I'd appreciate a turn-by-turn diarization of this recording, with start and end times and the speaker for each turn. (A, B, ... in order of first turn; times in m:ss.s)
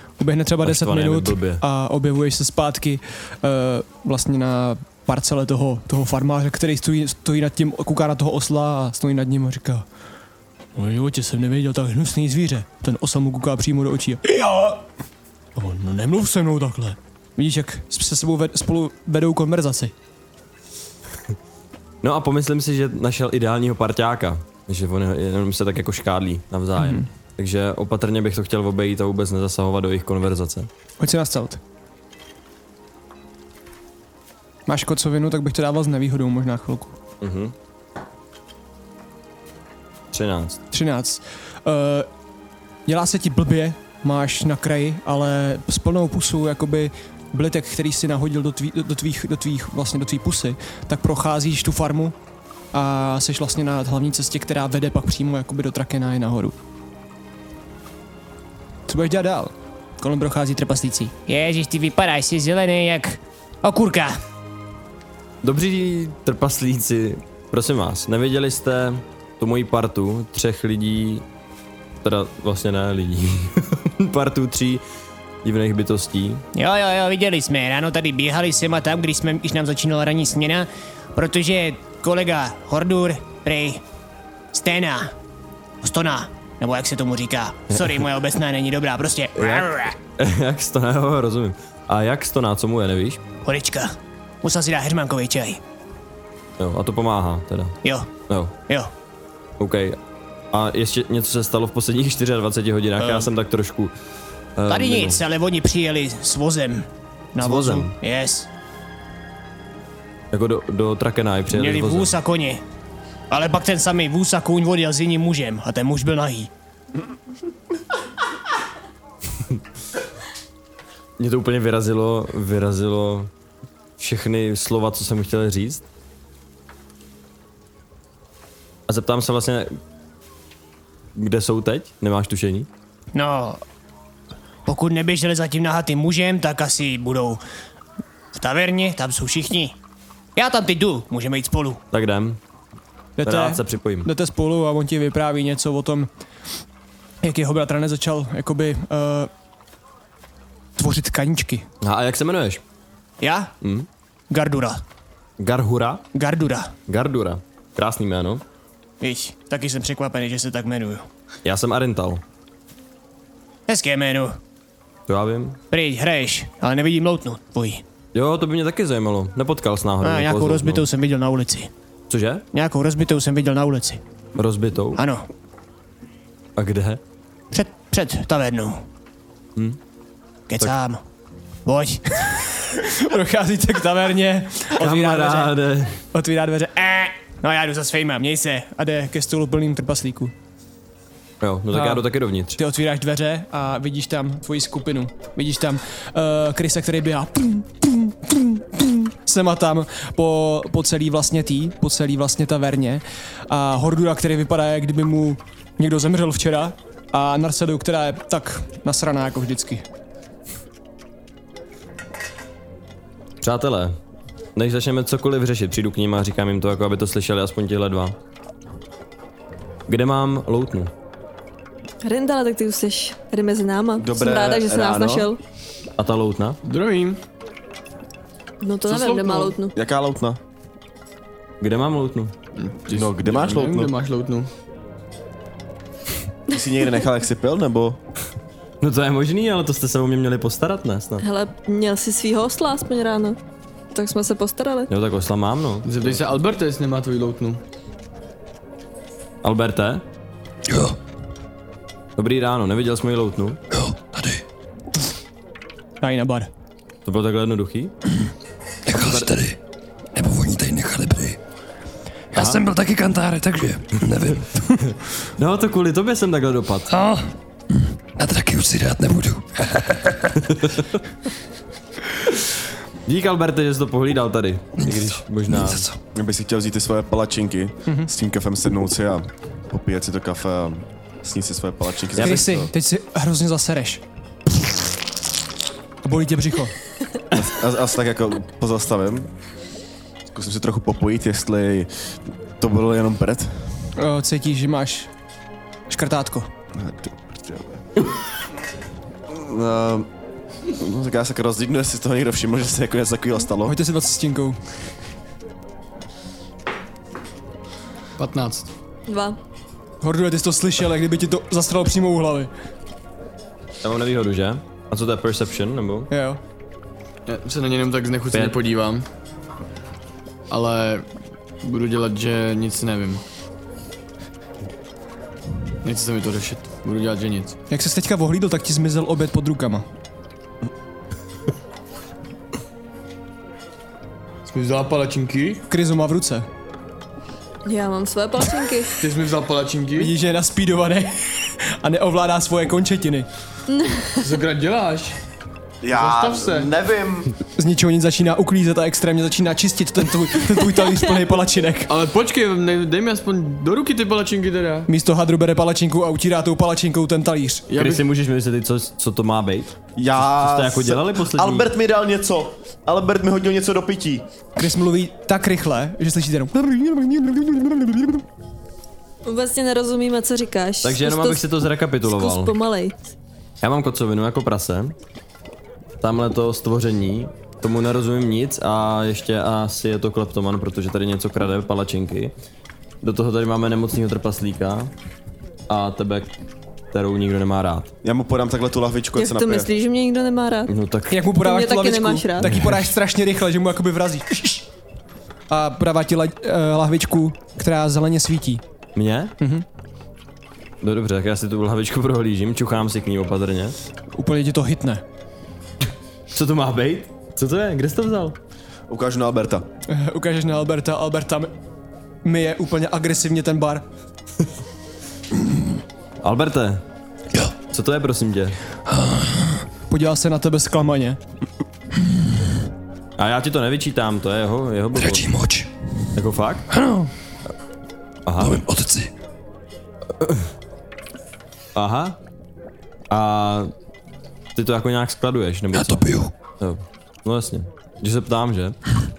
0:00.2-0:09.8 A
0:00.6-0:01.6 B
0:10.8-0:14.8 A
0:15.6-0:19.9 A
0:22.0-0:30.7 B
0:26.8-0:27.1 A
0:31.0-0:31.6 A
0:34.7-0:37.0 A
0:37.2-0:37.5 B
0:40.1-0:40.6 B
0:40.7-0:42.1 A
0:42.9-0:52.2 A
0:52.7-0:56.5 A
0:58.9-1:01.3 A
1:01.2-1:04.2 C
1:05.4-1:11.2 B
1:12.0-1:14.8 B
1:15.4-1:16.4 B
1:16.5-1:23.8 C
1:24.5-1:25.1 C
1:25.8-1:30.0 C
1:27.7-1:28.0 B
1:29.4-1:33.2 B
1:33.4-1:35.6 C
1:36.6-1:37.8 B
1:37.8-1:38.1 C
1:38.3-1:38.5 B
1:39.6-1:40.0 B
1:40.5-1:43.9 B
1:43.0-1:43.3 C
1:44.6-1:45.2 B
1:44.7-1:48.5 C
1:47.4-1:47.9 B
1:50.3-1:52.2 B
1:51.5-1:52.6 C
1:53.3-1:56.5 C
2:01.2-2:03.3 B
2:04.0-2:05.8 B
2:08.9-2:09.8 B
2:11.1-2:12.7 B
2:13.1-2:13.6 C
2:14.6-2:17.4 C
2:18.3-2:19.8 C
2:20.4-2:21.8 C
2:21.9-2:22.4 B
2:23.2-2:26.1 A
2:23.2-2:24.1 B
2:27.2-2:29.3 A
2:30.8-2:31.6 A
2:31.8-2:32.6 B
2:33.2-2:33.5 C
2:33.6-2:33.9 B
2:34.3-2:34.8 C
2:35.4-2:36.1 B
2:36.1-2:36.7 C
2:36.9-2:38.4 B
2:39.0-2:41.0 C
2:41.4-2:42.2 B
2:43.7-2:44.4 C
2:45.1-2:45.6 B
2:45.7-2:47.8 C
2:48.1-2:50.9 B
2:50.0-2:51.7 C
2:52.1-2:52.4 B
2:52.5-2:54.0 C
2:54.3-2:55.0 B
2:55.0-2:55.3 C
2:56.6-2:57.0 B
2:57.5-2:58.8 C
3:00.5-3:01.0 C
3:01.6-3:02.1 C
3:02.7-3:05.5 A
3:04.8-3:06.0 B
3:06.1-3:07.1 A
3:07.0-3:08.8 C
3:08.7-3:10.3 A
3:11.4-3:12.6 B
3:11.7-3:29.8 A
3:33.4-3:34.0 B
3:34.6-3:38.2 B
3:39.9-3:40.9 B
3:42.0-3:45.4 D
3:44.0-3:45.3 E
3:46.0-3:46.6 B
3:46.6-3:47.2 F
3:48.6-3:49.8 D
3:48.8-3:49.6 F
3:49.7-3:50.4 E
3:51.6-3:52.3 B
3:52.5-3:54.5 F
3:52.9-3:53.9 E
3:56.5-3:58.0 E
3:58.8-4:01.2 B
4:01.2-4:03.4 D
4:03.9-4:04.9 D
4:04.9-4:06.2 B
4:05.8-4:07.6 F
4:09.4-4:10.0 B
4:10.7-4:11.0 G
4:12.2-4:13.6 B
4:13.7-4:14.4 G
4:16.0-4:16.5 A
4:17.0-4:17.9 B
4:18.8-4:19.6 G
4:18.9-4:19.3 B
4:20.1-4:21.4 G
4:22.3-4:24.8 G
4:22.3-4:22.6 B
4:24.3-4:26.9 B
4:26.9-4:27.3 G
4:28.2-4:30.4 G
4:30.5-4:30.8 B
4:33.0-4:35.8 B
4:34.8-4:36.0 G
4:36.1-4:42.7 E
4:42.2-4:42.5 B
4:42.2-4:44.0 A
4:46.0-4:46.7 A
4:47.3-4:49.3 E
4:50.3-4:51.9 E
4:52.6-4:53.7 E
4:54.0-4:55.1 A
4:55.9-4:56.5 A
4:56.7-4:57.8 E
4:59.3-5:00.1 E
5:00.7-5:03.8 E
5:03.6-5:04.6 A
5:08.2-5:08.7 F
5:09.1-5:09.4 D
5:10.0-5:12.5 A
5:13.8-5:16.1 B
5:16.1-5:16.4 A
5:17.2-5:19.0 F
5:18.3-5:18.6 B
5:20.5-5:21.1 F
5:21.6-5:23.2 F
5:25.8-5:27.6 F
5:27.7-5:29.8 A
5:34.4-5:35.6 F
5:35.7-5:36.5 A
5:37.6-5:39.0 D
5:39.0-5:40.1 F
5:40.0-5:43.3 A
5:43.7-5:44.2 D
5:44.2-5:45.2 F
5:45.8-5:47.3 E
5:45.9-5:46.7 F
5:47.6-5:51.9 A
5:51.9-5:54.9 F
5:54.9-5:57.7 A
5:57.7-5:58.0 F
5:57.7-6:01.7 B
6:00.0-6:04.3 E
6:04.6-6:08.2 A
6:09.2-6:11.4 D
6:10.8-6:12.5 B
6:12.0-6:13.0 D
6:13.6-6:14.9 B
6:16.0-6:22.3 B
6:23.0-6:24.9 B
6:25.7-6:26.3 B
6:26.9-6:27.9 B
6:28.0-6:29.7 E
6:29.2-6:30.7 D
6:30.7-6:31.2 B
6:31.1-6:34.6 A
6:31.4-6:32.6 D
6:32.4-6:32.9 B
6:35.5-6:38.6 A
6:38.9-6:39.3 B
6:39.4-6:39.6 A
6:40.8-6:43.8 B
6:44.1-6:45.0 A
6:46.3-6:48.4 B
6:48.9-6:49.7 E
6:49.9-6:51.5 A
6:52.2-6:53.8 A
6:56.2-6:56.8 B
6:57.7-6:58.6 B
6:58.9-6:59.6 G
6:59.9-7:01.2 A
7:03.2-7:05.3 B
7:04.9-7:05.7 G
7:06.1-7:06.7 B
7:06.7-7:07.1 G
7:08.2-7:08.6 B
7:08.4-7:09.1 G
7:10.2-7:10.5 B
7:11.7-7:12.2 B
7:13.1-7:13.7 B
7:14.5-7:18.8 B
7:15.7-7:16.3 G